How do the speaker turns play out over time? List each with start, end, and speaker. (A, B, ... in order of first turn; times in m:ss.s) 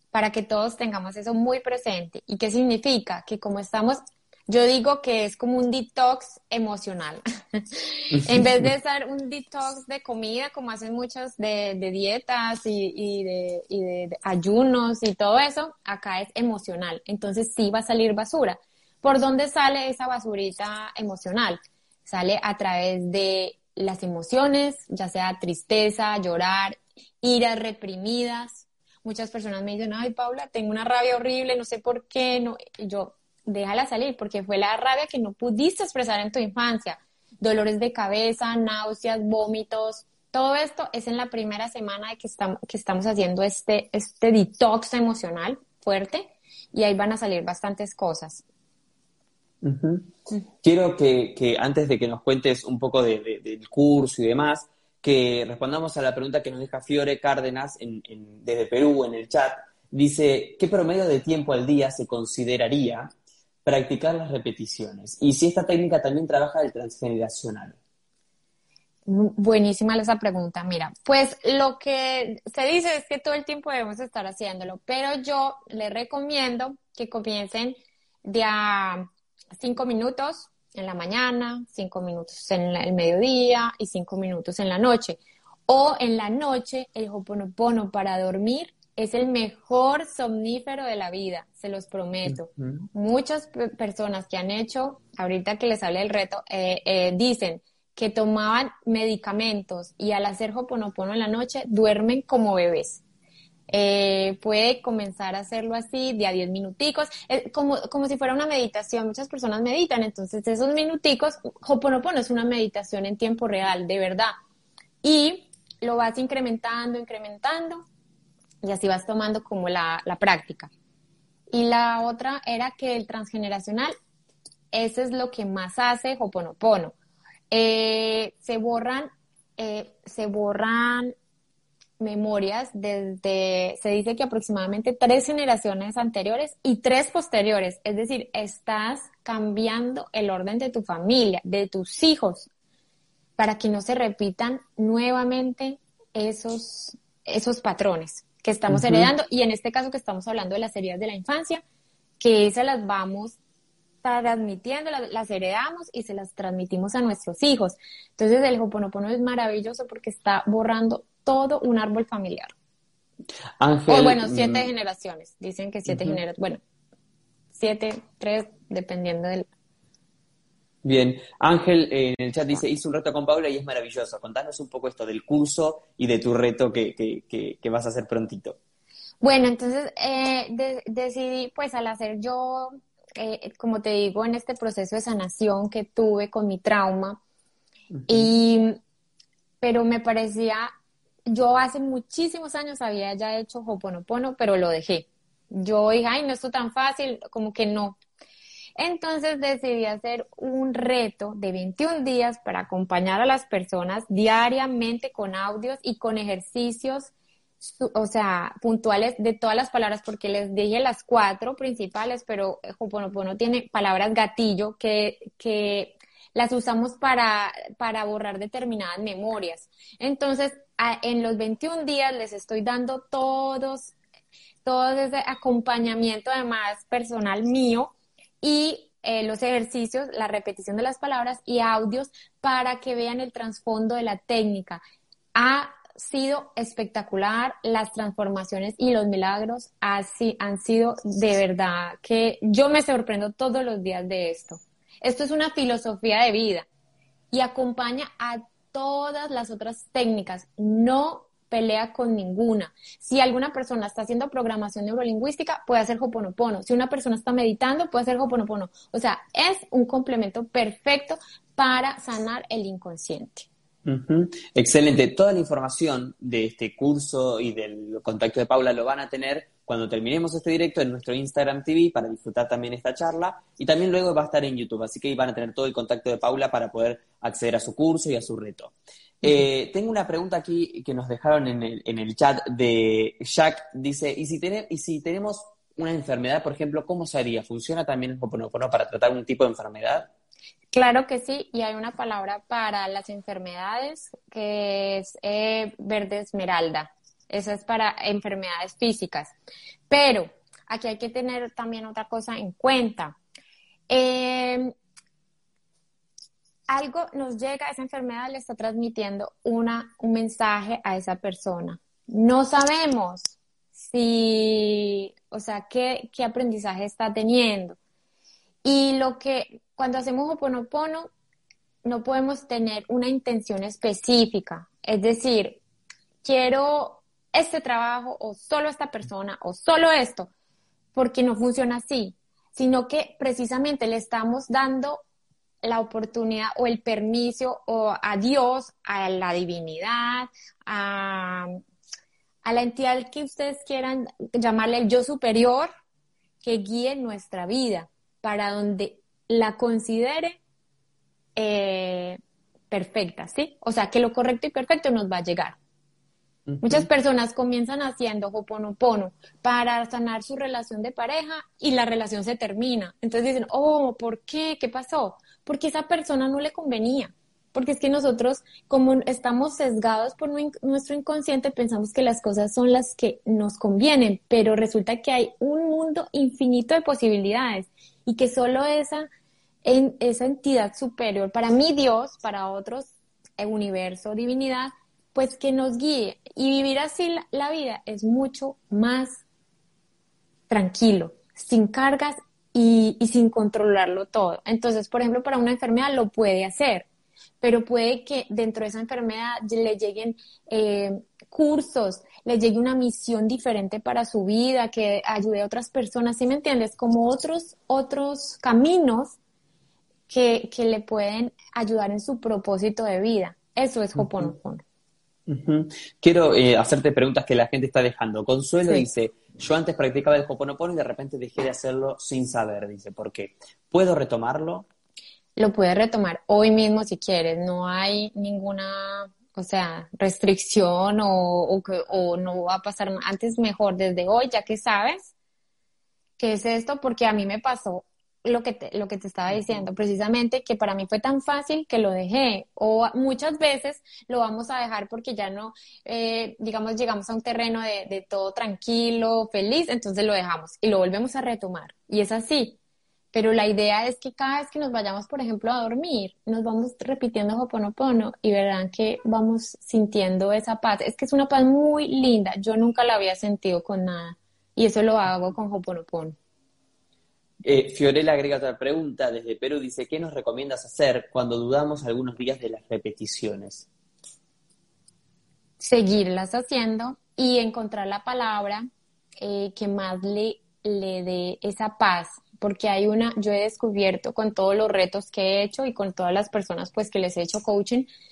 0:00.1-0:48.4 A
0:08.1-0:08.7 B
0:49.6-0:50.1 B
0:50.6-1:03.1 B
1:03.6-1:07.8 B
1:09.1-1:43.0 A
1:32.3-1:32.8 B
1:43.7-1:54.3 A
1:55.0-1:57.8 A
1:58.6-2:00.7 A
2:01.5-2:03.9 A
2:04.7-2:06.9 A
2:07.5-2:11.2 A
2:12.0-2:22.5 A
2:23.4-2:31.6 A
2:28.7-2:29.1 B
2:32.2-2:33.4 A
2:34.0-2:42.5 A
2:43.6-2:44.7 B
2:43.9-2:46.6 A
2:45.9-2:46.2 B
2:47.5-2:49.5 A
2:50.8-2:58.6 B
2:59.2-3:07.2 A
3:07.9-3:08.3 B
3:08.1-3:08.8 A
3:09.6-3:10.7 A
3:11.3-3:18.0 A
3:18.8-3:44.0 A
3:44.6-3:54.8 A
3:55.4-4:06.7 A
4:07.3-4:23.5 A
4:23.8-4:50.1 B
4:50.7-4:59.3 A
4:59.9-5:03.2 A
5:03.9-5:04.7 A
5:06.7-5:17.8 A
5:18.6-5:21.1 A
5:21.8-5:25.6 A
5:26.2-5:30.3 A
5:31.0-5:35.0 A
5:35.6-5:41.5 A
5:42.4-5:45.7 A
5:46.4-5:50.4 A
5:51.4-5:52.2 A
5:52.7-5:55.6 A
5:56.5-5:56.9 B
5:56.6-6:19.1 A
6:19.6-6:29.2 A
6:30.5-6:36.9 A
6:37.4-6:49.2 A
6:50.1-6:54.6 A
6:54.0-6:54.3 B
6:55.3-7:04.7 B
7:05.4-7:15.1 A
7:16.2-7:32.6 A
7:19.3-7:19.6 B
7:33.1-7:46.2 A
7:47.4-7:53.7 B
7:55.6-7:58.7 A
7:59.2-8:07.9 A